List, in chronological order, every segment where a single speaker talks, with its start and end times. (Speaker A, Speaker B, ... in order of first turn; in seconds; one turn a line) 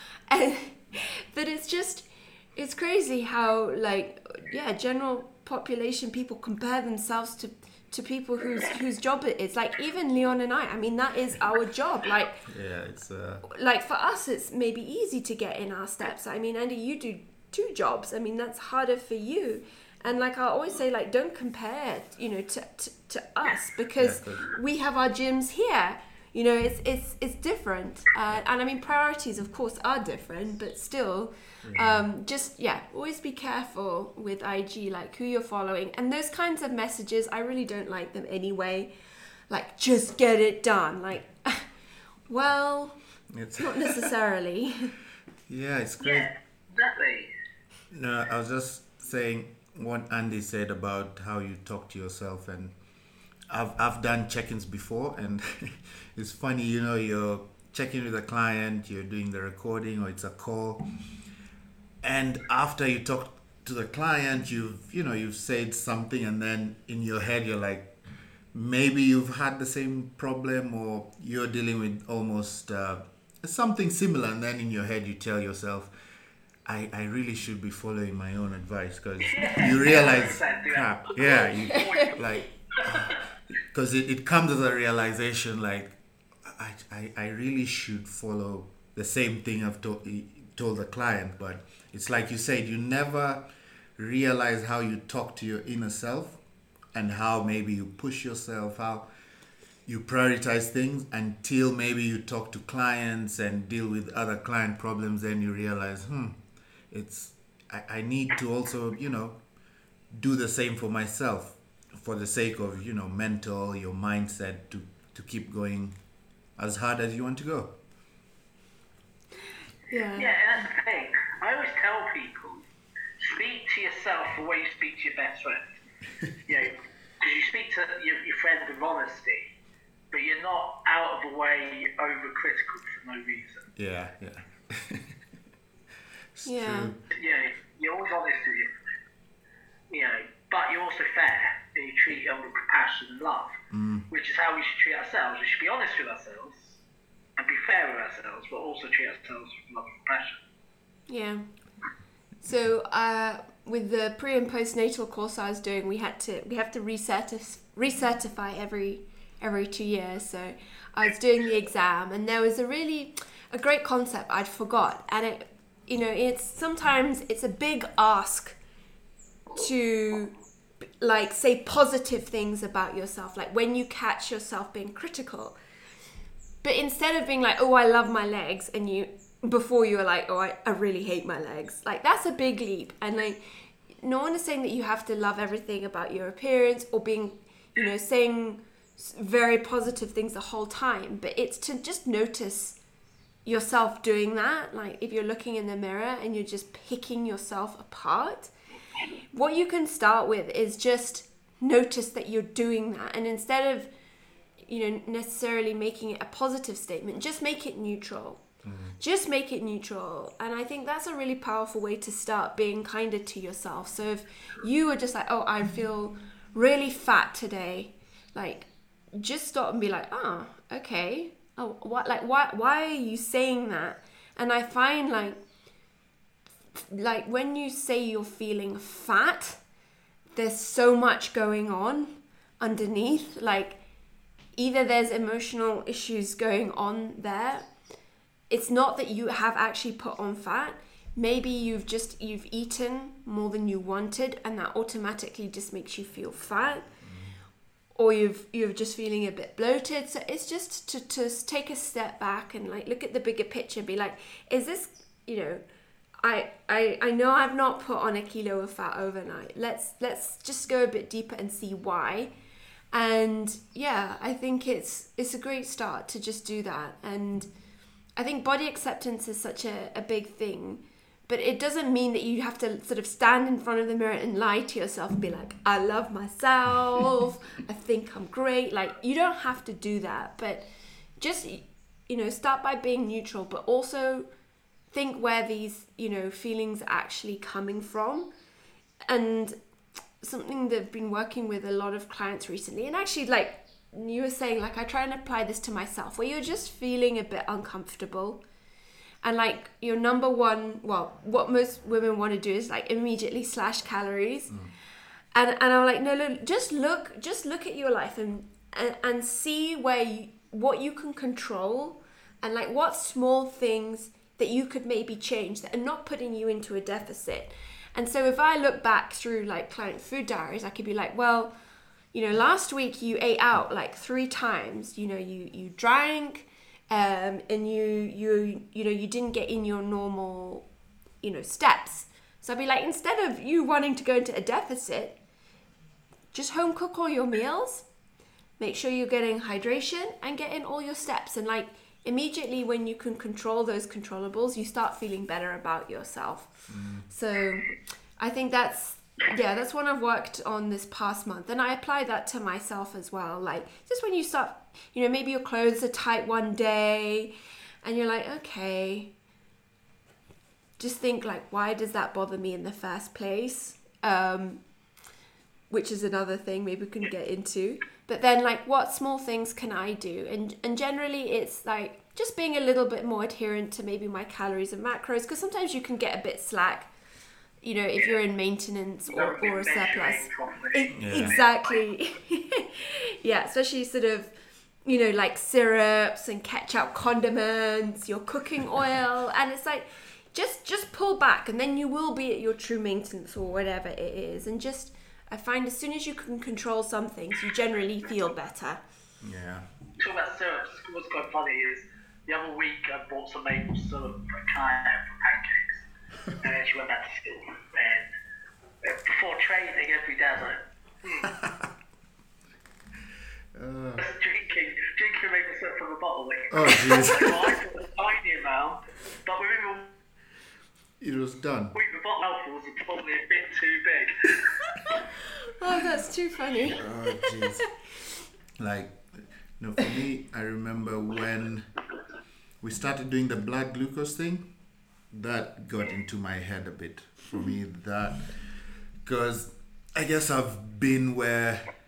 Speaker A: 0.3-12.4
Speaker B: 12.5-13.4
Speaker A: 13.4-38.9
Speaker B: 24.0-24.5
Speaker B: 31.6-32.0
Speaker A: 39.5-41.7
Speaker A: 42.3-43.0
Speaker B: 43.3-44.1
Speaker A: 43.6-45.0
Speaker B: 45.5-46.3
Speaker C: 46.0-47.3
Speaker B: 47.9-52.7
Speaker B: 53.5-60.8
Speaker B: 62.0-67.9
Speaker B: 68.5-75.9
Speaker B: 76.7-93.4
Speaker C: 79.2-82.3
Speaker C: 82.8-83.2
Speaker B: 94.0-96.4
Speaker B: 96.9-99.1
Speaker B: 99.8-106.4
Speaker B: 106.9-109.4
Speaker B: 110.1-116.0
Speaker B: 116.6-117.7
Speaker A: 119.9-120.3
Speaker C: 120.2-122.6
Speaker C: 123.2-125.7
Speaker C: 126.5-129.5
Speaker C: 130.1-133.7
Speaker B: 133.8-135.2
Speaker B: 136.3-137.0
Speaker A: 136.4-136.9
Speaker C: 137.1-138.7
Speaker C: 139.9-143.5
Speaker B: 143.7-144.1
Speaker C: 144.1-146.8
Speaker C: 147.4-150.4
Speaker A: 151.1-151.5
Speaker A: 152.4-168.6
Speaker A: 169.5-170.3
Speaker A: 171.0-175.6
Speaker A: 176.6-183.4
Speaker A: 184.0-192.8
Speaker A: 193.4-198.5
Speaker A: 199.3-203.9
Speaker A: 204.7-208.4
Speaker B: 208.6-208.9
Speaker A: 209.0-225.4
Speaker A: 226.8-229.6
Speaker A: 230.3-233.8
Speaker A: 234.6-237.7
Speaker A: 238.5-246.9
Speaker B: 247.0-247.3
Speaker A: 247.9-255.6
Speaker A: 256.2-262.3
Speaker A: 262.9-267.5
Speaker A: 268.2-280.6
Speaker A: 281.2-284.3
Speaker A: 284.9-288.3
Speaker A: 289.1-289.6
Speaker A: 290.2-298.4
Speaker A: 299.2-304.5
Speaker A: 305.3-321.5
Speaker A: 322.1-330.7
Speaker A: 331.2-335.1
Speaker A: 336.3-337.9
Speaker A: 338.6-359.1
Speaker B: 346.7-347.0
Speaker A: 360.8-364.6
Speaker A: 365.7-376.9
Speaker A: 377.6-384.3
Speaker C: 379.1-381.5
Speaker B: 380.9-381.4
Speaker A: 384.8-398.8
Speaker B: 399.2-399.6
Speaker C: 400.0-405.8
Speaker C: 406.4-408.1
Speaker C: 408.8-411.3
Speaker B: 411.3-411.7
Speaker B: 413.5-414.1
Speaker C: 414.0-419.9
Speaker B: 416.5-417.6
Speaker B: 421.0-421.7
Speaker C: 421.7-424.4
Speaker A: 425.6-427.6
Speaker B: 426.7-427.6
Speaker B: 428.6-429.0
Speaker B: 429.6-431.7
Speaker B: 432.6-434.4
Speaker B: 435.1-438.3
Speaker B: 439.0-441.7